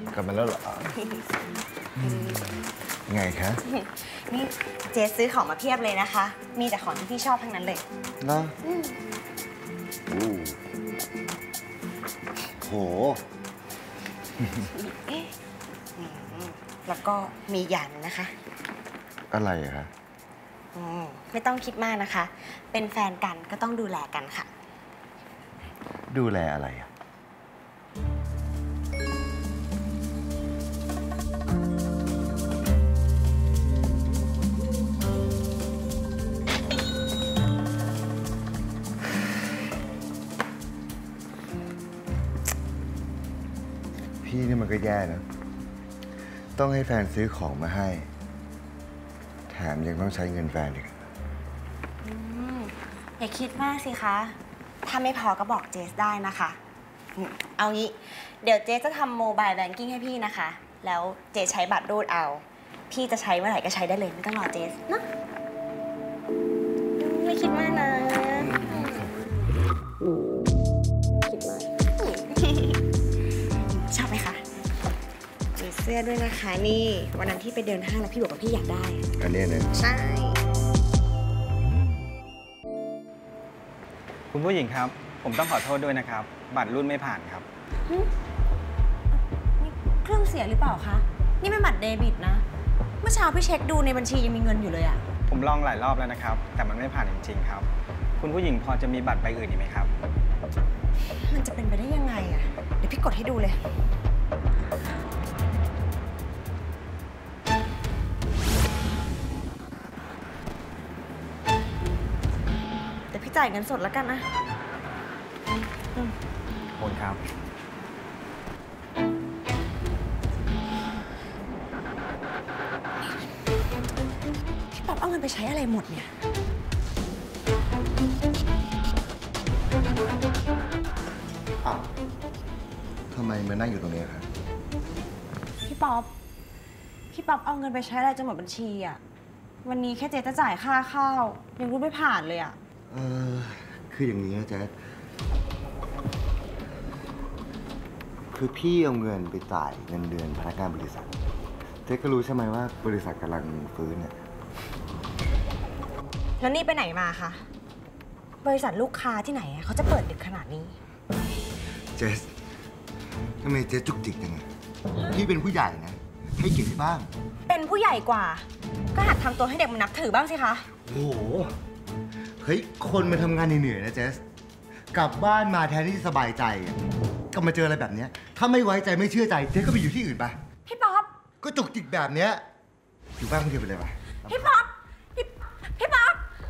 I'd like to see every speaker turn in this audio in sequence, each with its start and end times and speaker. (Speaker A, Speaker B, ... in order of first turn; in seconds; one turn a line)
Speaker A: 0.1-1.0
Speaker A: 2.0-2.4
Speaker A: 3.1-3.6
Speaker B: 4.0-7.8
Speaker A: 8.2-8.6
Speaker B: 8.7-9.0
Speaker A: 10.1-10.6
Speaker A: 12.5-13.2
Speaker B: 14.7-15.3
Speaker B: 16.0-18.3
Speaker A: 19.3-19.9
Speaker B: 20.8-24.5
Speaker A: 26.1-26.9
Speaker A: 44.2-45.2
Speaker A: 46.6-48.1
Speaker A: 49.5-51.0
Speaker B: 52.0-56.6
Speaker B: 57.2-65.0
Speaker B: 67.0-69.1
Speaker A: 68.4-69.0
Speaker B: 71.3-72.8
Speaker B: 73.7-74.4
Speaker B: 75.6-79.0
Speaker A: 79.2-79.7
Speaker B: 79.8-80.4
Speaker C: 84.3-87.5
Speaker B: 89.1-92.4
Speaker B: 93.0-95.0
Speaker C: 95.3-97.7
Speaker C: 98.2-99.9
Speaker B: 101.2-103.6
Speaker B: 113.1-114.2
Speaker C: 116.8-117.2
Speaker B: 124.7-126.1
Speaker A: 131.6-131.9
Speaker A: 133.1-134.3
Speaker B: 135.6-136.1
Speaker B: 137.1-139.0
Speaker B: 139.6-142.6
Speaker A: 142.9-144.7
Speaker A: 148.3-151.1
Speaker A: 151.9-154.2
Speaker B: 156.4-157.4
Speaker B: 158.4-160.8
Speaker A: 162.0-162.3
Speaker A: 163.4-164.5
Speaker A: 165.1-167.1
Speaker B: 167.5-170.7
Speaker A: 170.9-171.5
Speaker A: 172.4-174.2
Speaker A: 174.9-176.8
Speaker A: 177.3-180.4
Speaker B: 180.7-181.1
Speaker A: 181.4-182.4
Speaker A: 183.2-184.7
Speaker B: 184.2-186.2